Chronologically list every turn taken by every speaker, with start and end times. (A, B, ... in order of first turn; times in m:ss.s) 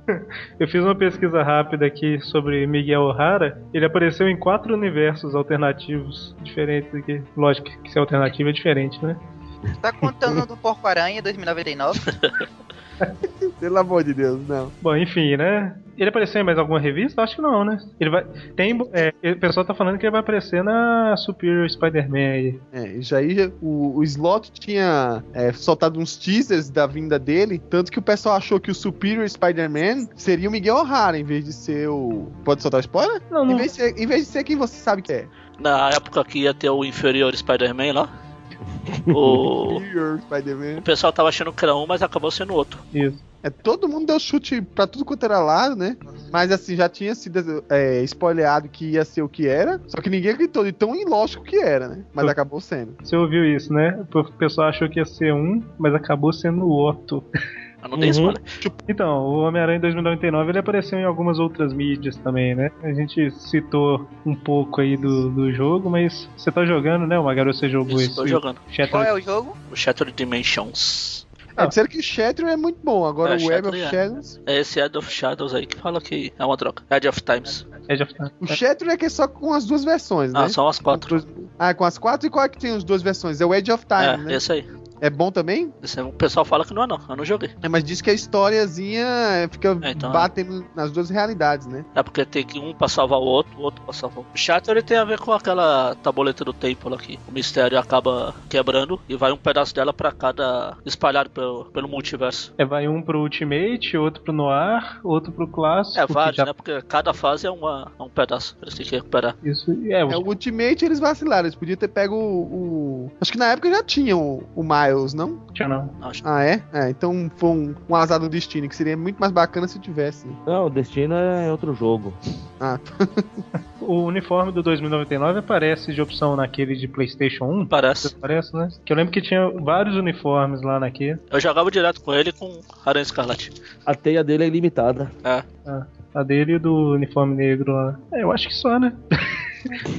0:00.1-0:09.2 A
0:09.8-0:12.1 B
0:13.5-0:14.7 C
0:14.8-0:22.6 A
0:22.7-0:35.3 C
0:33.3-0:33.7 A
0:35.6-0:38.1 D
0:38.9-0:39.4 E
0:39.1-0:39.8 D
0:39.6-0:40.8 C
0:40.8-0:42.8 D
0:42.9-0:43.2 A
0:43.4-0:53.0 C
0:53.0-0:57.3 A
0:57.8-0:58.6 D
0:58.0-0:58.4 E
0:58.9-1:09.2 A
1:07.9-1:08.6 D
1:08.9-1:09.6 B
1:09.7-1:11.2 D
1:11.6-1:14.4 C
1:13.2-1:17.6 D
1:17.9-1:18.6 A
1:18.4-1:24.4 C
1:20.3-1:21.2 D
1:24.0-1:24.7 D
1:25.0-1:25.7 C
1:25.8-1:27.5 D
1:27.6-1:31.9 C
1:29.8-1:30.3 D
1:32.0-1:42.5 D
1:42.6-1:46.5 A
1:46.0-1:49.4 D
1:49.4-1:50.3 A
1:50.1-1:55.4 C
1:55.6-1:55.9 A
1:56.2-2:00.4 C
2:00.4-2:02.2 E
2:02.6-2:03.3 C
2:03.8-2:11.2 A
2:07.7-2:08.1 D
2:11.3-2:13.5 D
2:13.9-2:15.1 E
2:15.7-2:19.0 A